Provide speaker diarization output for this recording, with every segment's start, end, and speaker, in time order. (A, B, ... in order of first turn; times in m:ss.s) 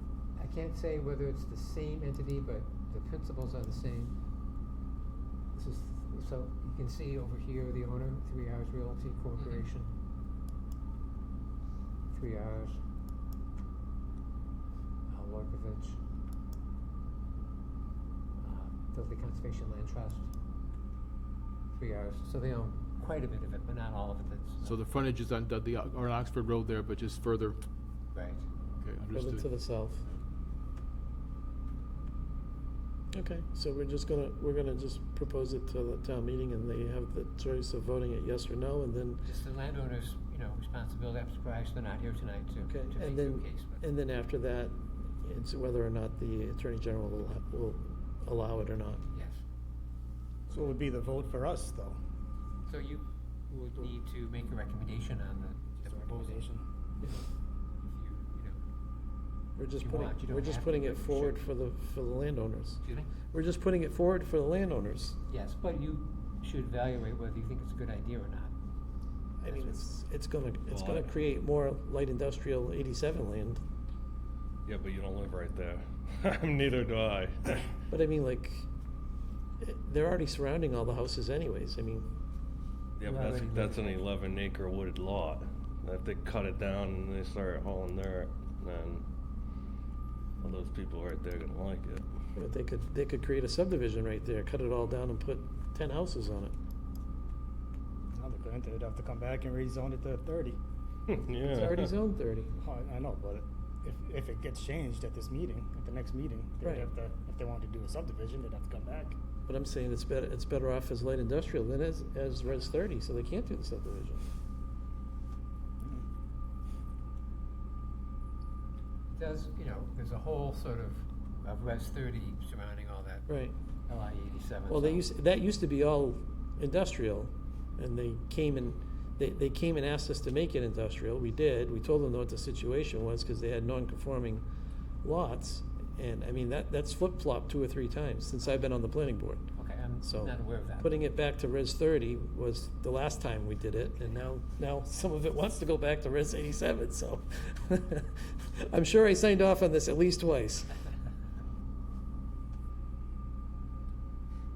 0:00.4-0:04.2 A
0:05.5-0:09.9 A
0:12.1-0:12.8 A
0:15.1-0:16.0 A
0:18.4-0:20.3 A
0:21.7-0:24.9 A
0:24.6-0:27.6 B
0:28.1-0:28.5 A
0:28.8-0:29.5 B
0:29.1-0:30.0 C
0:33.1-0:39.3 C
0:39.2-0:43.8 A
0:42.7-0:49.0 C
0:49.1-0:49.4 A
0:50.5-0:52.0 D
0:52.7-0:56.5 A
0:55.8-0:56.6 D
0:57.8-0:58.6 A
0:59.6-1:05.2 C
0:59.8-1:01.4 A
1:02.8-1:03.1 A
1:05.3-1:08.5 A
1:09.4-1:13.6 C
1:09.4-1:09.9 A
1:10.7-1:11.1 E
1:14.7-1:17.8 E
1:17.9-1:18.7 C
1:19.6-1:22.1 C
1:23.0-1:29.0 E
1:23.0-1:24.0 A
1:30.4-1:32.0 E
1:32.4-1:36.6 C
1:38.1-1:40.6 D
1:41.1-1:41.9 E
1:41.4-1:42.6 C
1:42.6-1:49.2 D
1:46.6-1:46.9 C
1:49.5-1:54.3 C
1:59.1-2:03.3 A
2:03.3-2:03.6 C
2:03.9-2:05.1 A
2:04.7-2:14.4 C
2:15.0-2:19.5 C
2:19.6-2:21.0 A
2:20.0-2:30.8 C